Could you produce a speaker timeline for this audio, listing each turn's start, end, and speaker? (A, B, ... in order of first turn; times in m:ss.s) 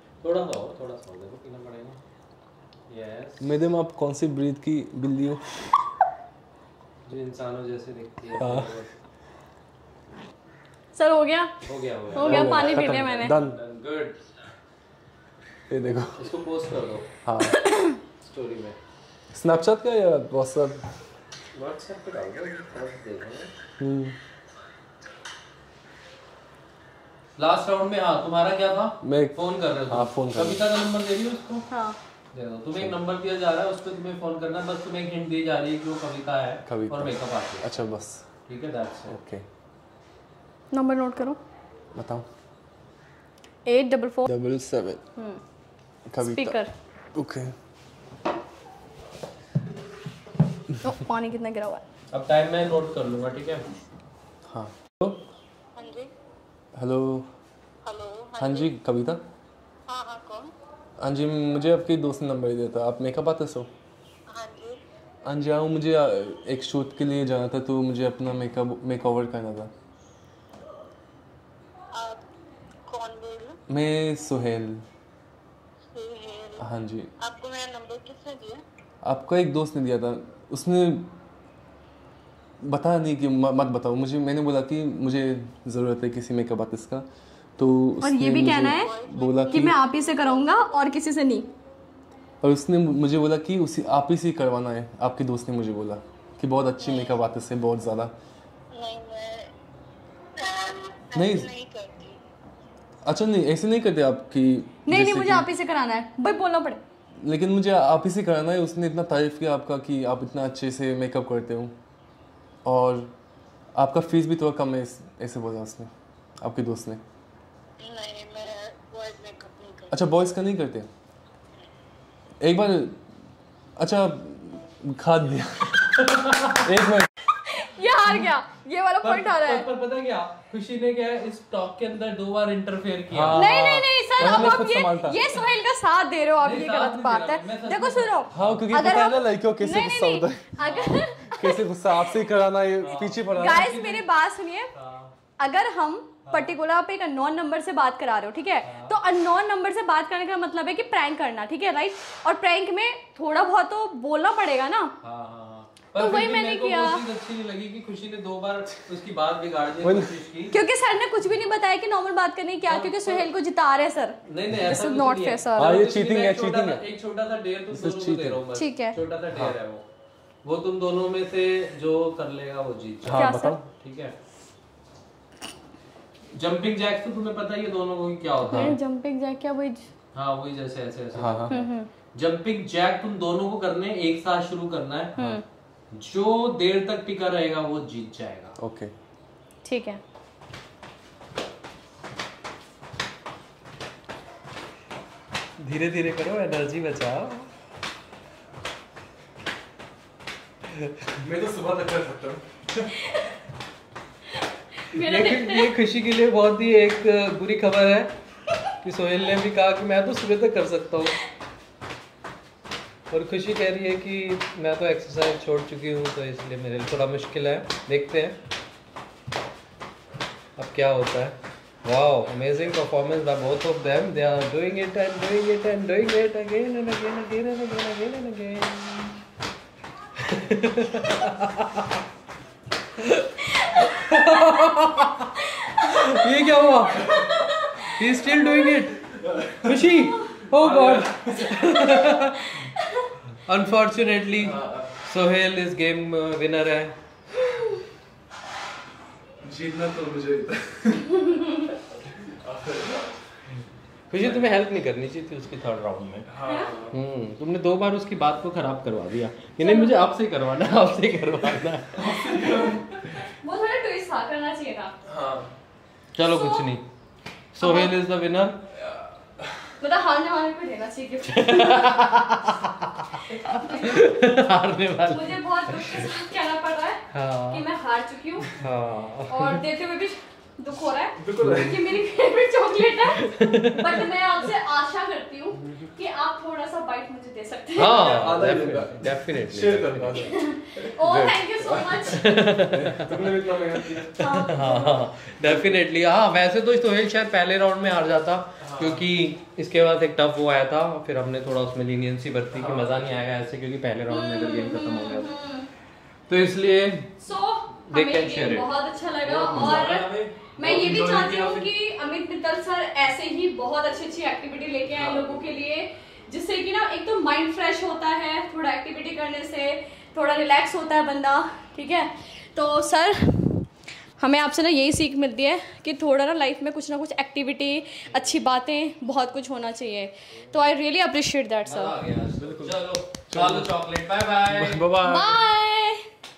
0:00.2-0:02.0 A
0:02.9-0:03.5 A
0:03.4-0:05.7 B
0:07.1-0:08.9 A
0:08.4-0:08.8 B
0:11.0-0:11.5 C
0:11.6-0:14.2 A
0:12.1-0:13.4 C
0:12.2-0:13.6 B
0:15.7-0:16.2 B
0:16.2-0:17.1 A
0:17.2-0:17.6 B
0:17.5-0:18.0 C
0:18.2-0:18.8 A
0:19.3-0:20.9 B
0:21.6-0:23.5 A
0:23.8-0:24.2 B
0:27.4-0:31.7 A
0:29.0-0:29.4 B
0:29.9-0:30.6 B
0:31.7-0:32.0 C
0:32.3-0:37.7 A
0:32.8-0:33.0 B
0:36.7-0:38.2 B
0:38.5-0:39.2 A
0:39.1-0:39.4 B
0:40.7-0:41.4 C
0:41.9-0:42.3 B
0:43.7-0:44.3 C
0:44.3-0:45.0 B
0:46.1-0:46.6 B
0:46.2-0:46.7 C
0:47.2-0:47.5 B
0:50.8-0:51.8 C
0:52.1-0:53.7 A
0:54.5-0:55.3 B
0:55.8-0:56.1 D
0:56.8-0:57.3 B
0:57.8-0:58.7 D
0:58.4-0:59.2 B
0:59.9-1:00.5 D
1:01.0-1:03.7 B
1:04.3-1:04.8 D
1:05.2-1:09.7 B
1:11.9-1:12.2 D
1:12.9-1:13.6 D
1:13.7-1:14.8 B
1:15.9-1:16.7 D
1:16.6-1:17.1 B
1:17.2-1:18.6 D
1:19.0-1:21.1 B
1:22.6-1:27.1 B
1:27.6-1:29.8 B
1:28.0-1:31.5 C
1:28.5-1:30.5 D
1:32.4-1:38.1 B
1:36.8-1:37.1 D
1:38.7-1:39.5 D
1:40.4-1:42.2 D
1:41.1-1:41.5 B
1:43.0-1:45.5 B
1:44.9-1:46.8 C
1:47.2-1:51.8 B
1:52.6-1:53.1 B
1:53.8-1:57.0 B
1:57.8-2:00.1 D
1:59.9-2:00.9 B
2:02.4-2:03.0 B
2:03.8-2:06.0 B
2:05.8-2:06.7 A
2:06.6-2:07.3 B
2:07.4-2:09.7 C
2:09.0-2:13.6 A
2:13.1-2:15.2 B
2:13.3-2:21.7 C
2:14.2-2:14.5 A
2:16.4-2:18.7 A
2:18.3-2:20.7 B
2:20.6-2:21.0 A
2:21.3-2:23.8 B
2:22.8-2:24.1 A
2:23.3-2:24.7 C
2:24.7-2:25.1 A
2:25.4-2:34.9 C
2:26.3-2:26.6 A
2:28.6-2:29.0 A
2:35.0-2:40.6 A
2:36.0-2:37.0 C
2:39.8-2:40.2 B
2:40.5-2:45.7 C
2:42.6-2:43.3 A
2:44.2-2:49.8 A
2:45.6-2:46.9 B
2:47.7-2:48.4 B
2:48.6-2:49.0 C
2:50.4-2:54.1 A
2:53.0-2:53.6 B
2:53.1-2:53.6 C
2:56.3-2:58.8 A
2:58.5-2:58.8 B
2:58.5-2:59.9 C
3:00.1-3:05.2 A
3:01.1-3:01.6 B
3:01.5-3:01.9 C
3:05.2-3:05.4 C
3:05.9-3:08.6 A
3:08.6-3:08.9 B
3:09.6-3:10.0 C
3:15.6-3:17.5 A
3:21.0-3:22.9 B
3:24.9-3:28.1 A
3:24.9-3:25.7 C
3:28.8-3:31.2 A
3:33.1-3:38.4 A
3:40.6-3:49.2 A
3:50.2-3:52.0 A
3:53.0-3:59.1 A
3:57.3-3:58.6 C
3:59.0-4:01.9 B
3:59.6-4:02.7 A
4:02.7-4:03.1 C
4:03.4-4:07.0 A
4:04.4-4:05.0 B
4:09.4-4:13.2 B
4:14.1-4:16.3 A
4:16.3-4:17.0 B
4:16.5-4:16.7 C
4:16.9-4:22.2 A
4:19.6-4:20.0 C
4:21.9-4:23.2 B
4:23.2-4:25.0 C
4:25.0-4:25.5 B
4:26.2-4:26.8 A
4:26.3-4:26.7 C
4:27.6-4:28.6 A
4:27.6-4:28.0 C
4:28.9-4:29.5 B
4:29.8-4:32.0 C
4:31.3-4:36.1 A
4:33.3-4:34.2 C
4:35.0-4:38.5 C
4:37.1-4:37.6 A
4:38.6-4:39.6 A
4:39.3-4:48.2 C
4:41.2-4:41.9 B
4:43.2-4:44.0 A
4:47.8-4:50.3 A
4:47.9-4:54.6 B
4:50.1-4:52.2 C
4:52.1-4:53.1 A
4:54.2-4:55.1 C
4:54.4-5:05.3 A
4:55.5-4:55.8 B
4:58.6-4:59.1 B
5:02.5-5:03.2 B
5:04.1-5:05.7 C
5:06.3-5:07.1 A
5:07.2-5:32.0 C
5:07.9-5:08.7 A
5:09.2-5:10.4 A
5:09.5-5:09.9 B
5:10.6-5:11.7 B
5:11.1-5:11.5 A
5:15.0-5:15.4 A
5:15.0-5:15.3 B
5:28.1-5:28.4 A
5:31.6-5:34.9 A
5:32.4-5:33.7 B
5:34.5-5:35.4 B
5:35.0-5:36.0 C